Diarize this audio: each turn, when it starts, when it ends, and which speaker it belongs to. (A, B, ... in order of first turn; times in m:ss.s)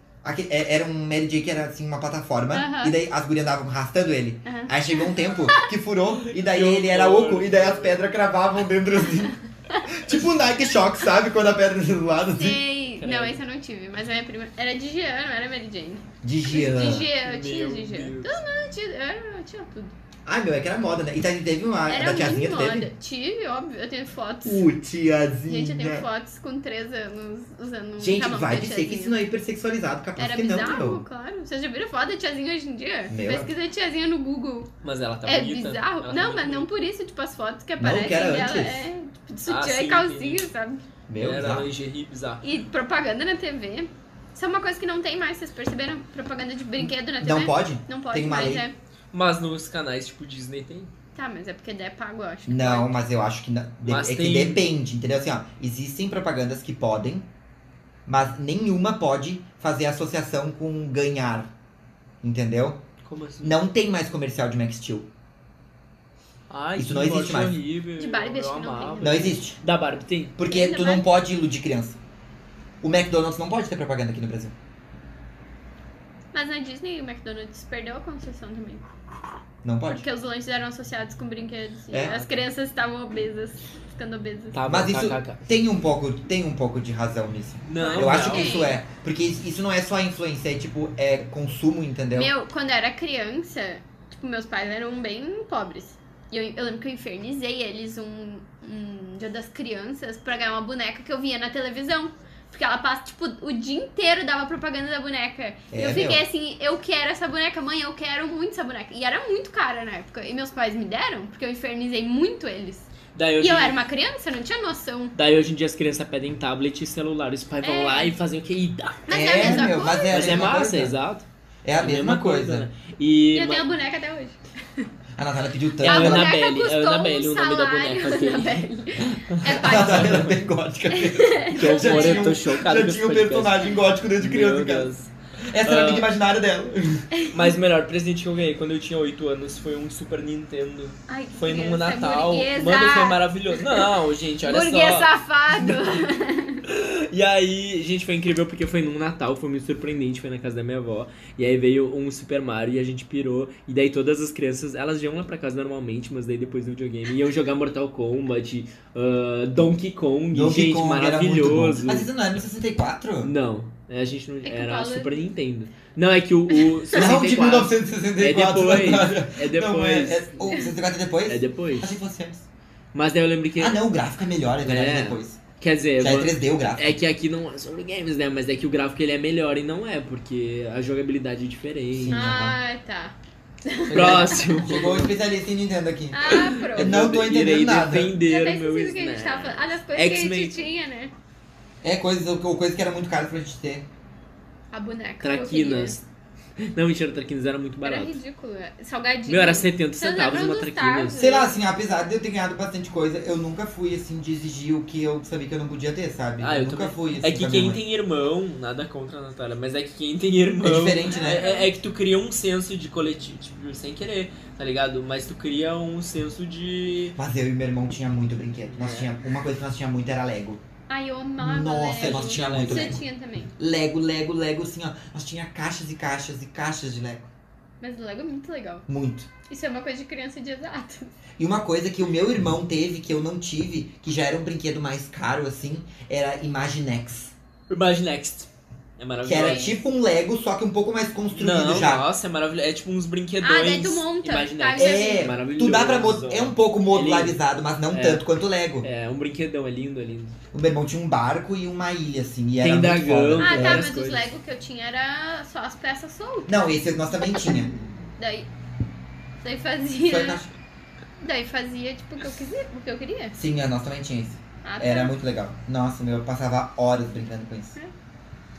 0:00.2-0:12.6 A
0:02.5-0:02.9 B
0:04.4-0:05.7 B
0:06.2-0:08.0 C
0:12.4-0:19.9 B
0:13.0-0:13.4 C
0:16.2-0:17.1 A
0:17.2-0:18.4 C
0:20.2-0:22.9 A
0:21.9-0:24.7 B
0:24.4-0:26.1 A
0:25.5-0:29.2 B
0:28.0-0:31.0 A
0:30.2-0:34.7 B
0:33.1-0:33.5 A
0:34.8-0:36.7 C
0:35.2-0:40.8 B
0:37.8-0:38.9 A
0:39.4-0:40.4 C
0:41.1-0:41.7 A
0:41.2-0:42.4 C
0:42.4-0:48.7 B
0:46.8-0:48.6 A
0:49.1-0:50.9 C
0:51.1-0:52.9 B
0:52.5-0:57.3 A
0:53.8-0:54.6 C
0:58.0-1:01.5 A
1:02.2-1:02.8 A
1:03.0-1:03.6 C
1:03.4-1:05.1 A
1:06.5-1:10.4 C
1:06.7-1:07.6 A
1:08.0-1:09.4 B
1:09.0-1:09.6 A
1:10.4-1:12.0 A
1:10.5-1:11.1 B
1:12.8-1:14.5 A
1:16.3-1:18.9 B
1:19.6-1:20.0 A
1:19.9-1:24.6 B
1:21.9-1:22.2 A
1:24.5-1:25.4 C
1:24.7-1:32.3 A
1:27.6-1:28.6 C
1:27.8-1:28.8 B
1:32.1-1:52.9 B
1:45.7-1:46.2 A
1:53.1-1:53.8 C
1:53.4-1:55.1 B
1:55.1-2:01.2 C
1:57.6-1:58.2 B
1:59.1-2:00.4 B
1:59.1-2:01.0 A
2:01.6-2:02.7 A
2:01.8-2:03.7 C
2:03.3-2:04.9 B
2:05.2-2:06.3 A
2:05.8-2:10.3 B
2:05.8-2:10.4 C
2:09.5-2:17.1 A
2:10.9-2:12.3 B
2:11.5-2:16.1 C
2:17.3-2:26.0 C
2:21.1-2:23.9 B
2:24.4-2:26.6 B
2:26.6-2:42.1 C
2:40.3-2:43.3 A
2:43.2-2:50.6 C
2:44.4-2:45.2 B
2:46.5-2:46.8 B
2:46.9-2:52.4 A
2:51.2-2:51.9 C
2:52.9-2:53.8 C
2:53.6-2:55.4 A
2:54.6-3:02.2 C
2:56.0-2:56.9 A
3:01.9-3:02.6 A
3:02.1-3:04.4 B
3:03.9-3:08.2 A
3:03.9-3:05.1 C
3:06.1-3:06.9 B
3:06.3-3:10.7 C
3:08.2-3:11.1 B
3:11.8-3:13.9 A
3:14.7-3:16.0 B
3:15.2-3:16.0 C
3:16.6-3:18.2 C
3:17.8-3:21.5 B
3:19.3-3:21.2 C
3:21.1-3:27.8 A
3:26.4-3:37.2 C
3:30.6-3:31.4 A
3:31.1-3:31.7 B
3:37.2-3:40.6 A
3:38.6-3:39.1 C
3:40.9-3:43.5 B
3:41.4-3:43.0 A
3:42.0-3:43.0 C
3:43.6-3:47.3 A
3:47.8-3:48.8 B
3:48.9-3:49.3 A
3:49.5-3:51.1 B
3:51.4-3:57.3 A
3:57.7-3:59.8 C
3:59.2-4:02.1 A
3:59.4-3:59.7 B
4:01.4-4:08.2 C
4:03.4-4:05.3 B
4:04.8-4:08.9 A
4:08.8-4:10.4 C
4:10.5-4:13.9 A
4:12.6-4:14.3 C
4:13.4-4:16.7 B
4:16.5-4:17.7 A
4:18.2-4:18.5 B
4:19.4-4:20.4 B
4:20.0-4:20.5 A
4:21.2-4:23.4 B
4:23.3-4:27.8 A
4:24.6-4:25.1 B